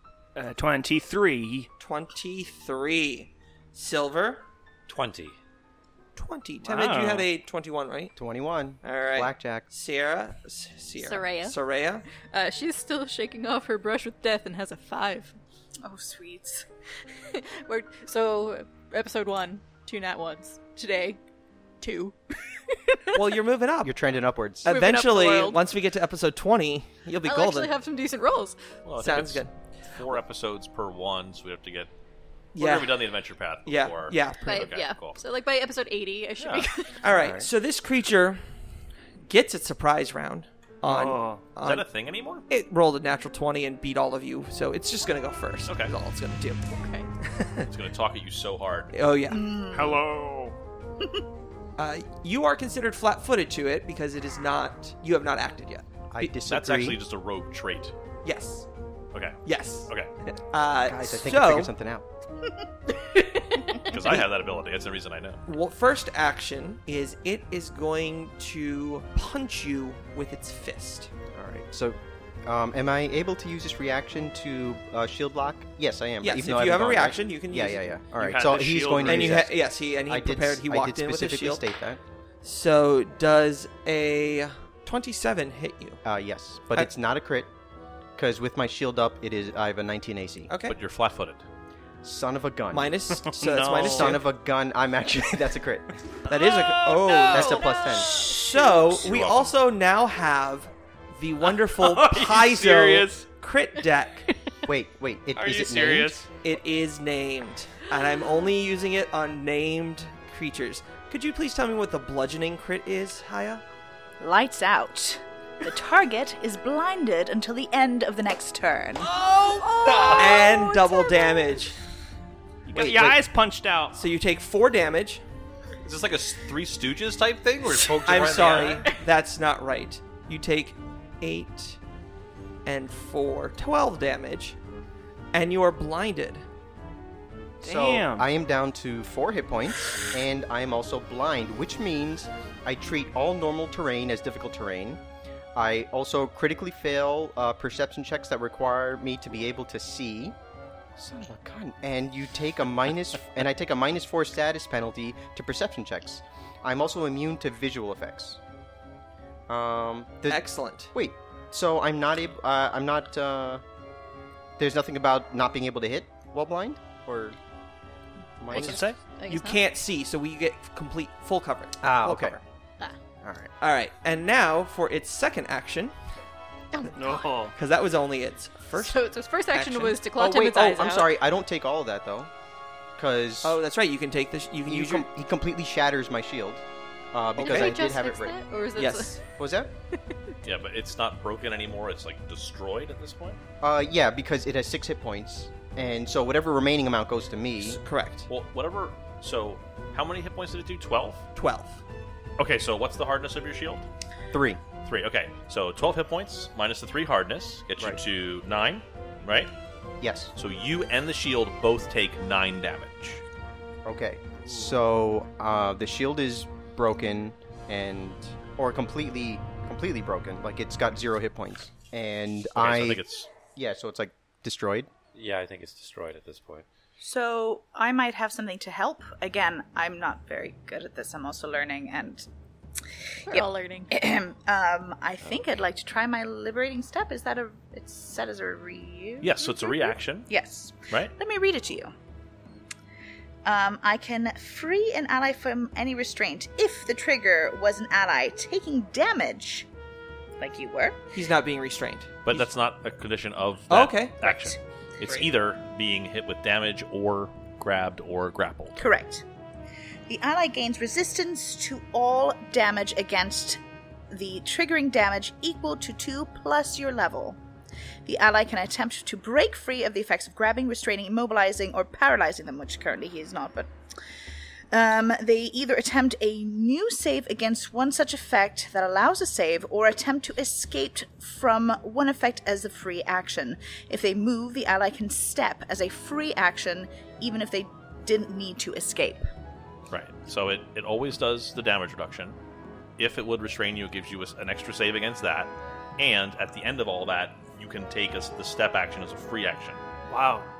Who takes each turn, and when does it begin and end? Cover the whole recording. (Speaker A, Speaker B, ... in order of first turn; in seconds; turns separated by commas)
Speaker A: 0.3-1.7, Speaker B: 1.8-4.5, Speaker C: 4.9-5.3, Speaker B: 6.2-8.1, Speaker A: 6.6-7.3, Speaker D: 8.2-9.7, Speaker B: 8.8-12.1, Speaker E: 11.0-11.6, Speaker E: 12.3-15.4, Speaker F: 15.8-16.7, Speaker E: 17.3-21.2, Speaker E: 21.8-23.3, Speaker B: 23.1-23.9, Speaker D: 23.8-24.7, Speaker B: 24.6-27.8, Speaker E: 24.7-25.6, Speaker E: 27.2-28.6, Speaker G: 28.9-31.9, Speaker B: 29.0-29.6, Speaker B: 32.5-33.1, Speaker G: 32.6-35.2, Speaker B: 33.6-34.7, Speaker E: 34.5-37.1, Speaker G: 36.4-36.7, Speaker B: 37.0-38.4, Speaker D: 37.2-37.5, Speaker B: 39.2-41.9, Speaker A: 40.9-41.5, Speaker G: 41.6-42.5, Speaker B: 42.5-46.7, Speaker G: 45.7-45.9, Speaker E: 46.7-47.1, Speaker B: 47.2-47.7, Speaker G: 47.7-48.9, Speaker B: 48.9-49.4, Speaker F: 49.3-50.0, Speaker A: 49.7-50.6, Speaker B: 51.8-56.3, Speaker D: 56.1-57.0, Speaker G: 56.4-57.9, Speaker B: 58.2-58.7, Speaker G: 59.1-60.1, Speaker B: 59.5-61.7, Speaker D: 60.8-62.1, Speaker E: 63.1-63.9, Speaker G: 63.8-65.4, Speaker B: 65.5-71.1, Speaker D: 71.3-82.0, Speaker B: 76.2-77.9, Speaker A: 78.2-79.5, Speaker B: 78.9-81.7, Speaker B: 82.4-86.0, Speaker D: 86.0-87.5, Speaker D: 88.2-90.5, Speaker B: 90.5-90.8, Speaker G: 90.7-91.5, Speaker D: 92.0-93.0, Speaker B: 92.7-94.2, Speaker A: 93.2-94.2, Speaker D: 93.7-95.9, Speaker A: 96.2-97.4, Speaker B: 96.3-104.3, Speaker E: 97.0-99.0, Speaker D: 97.3-98.2, Speaker G: 99.0-99.5, Speaker A: 101.7-103.3, Speaker D: 104.7-106.2, Speaker A: 105.4-106.3, Speaker B: 106.4-113.6, Speaker F: 114.2-119.1, Speaker E: 119.4-121.7, Speaker G: 119.9-120.1, Speaker B: 120.1-121.8, Speaker A: 122.7-124.0, Speaker B: 123.9-125.2, Speaker G: 125.8-128.8, Speaker B: 128.0-131.8, Speaker B: 132.7-134.6, Speaker B: 135.3-136.4, Speaker D: 137.6-145.0, Speaker A: 137.6-138.3, Speaker D: 145.6-150.4, Speaker D: 151.0-158.4, Speaker D: 159.5-163.6, Speaker B: 160.3-160.9, Speaker D: 164.6-167.4, Speaker D: 168.4-168.8, Speaker E: 168.5-169.6, Speaker G: 168.6-169.0, Speaker B: 169.3-172.4, Speaker D: 171.8-172.4, Speaker D: 173.2-173.5, Speaker B: 173.6-176.0, Speaker E: 176.7-177.3, Speaker A: 176.9-177.6, Speaker B: 177.6-180.0, Speaker E: 178.7-181.2, Speaker D: 180.2-182.3, Speaker D: 183.0-183.6, Speaker B: 183.4-185.1, Speaker D: 184.7-188.4, Speaker B: 187.4-187.8, Speaker E: 187.4-189.2, Speaker B: 188.8-189.2, Speaker D: 189.4-189.7, Speaker G: 190.4-193.4, Speaker D: 193.6-197.8, Speaker B: 197.6-198.3, Speaker G: 198.3-201.2, Speaker B: 201.3-201.8, Speaker G: 202.4-203.9, Speaker D: 204.3-204.6, Speaker G: 204.8-209.5, Speaker D: 210.0-210.3, Speaker G: 210.3-213.2, Speaker D: 213.8-223.0, Speaker G: 222.6-223.3, Speaker D: 223.5-224.9, Speaker C: 225.1-226.7, Speaker F: 227.0-232.3, Speaker E: 233.3-233.9, Speaker F: 233.3-241.9, Speaker G: 239.2-240.3, Speaker F: 243.4-249.7, Speaker F: 250.4-251.0, Speaker B: 251.1-252.5, Speaker G: 252.2-258.8, Speaker B: 253.7-254.2, Speaker F: 258.8-259.2, Speaker F: 260.1-267.4, Speaker F: 268.1-273.7, Speaker F: 274.7-289.3, Speaker G: 289.9-292.4, Speaker G: 293.0-299.8, Speaker A: 300.1-300.5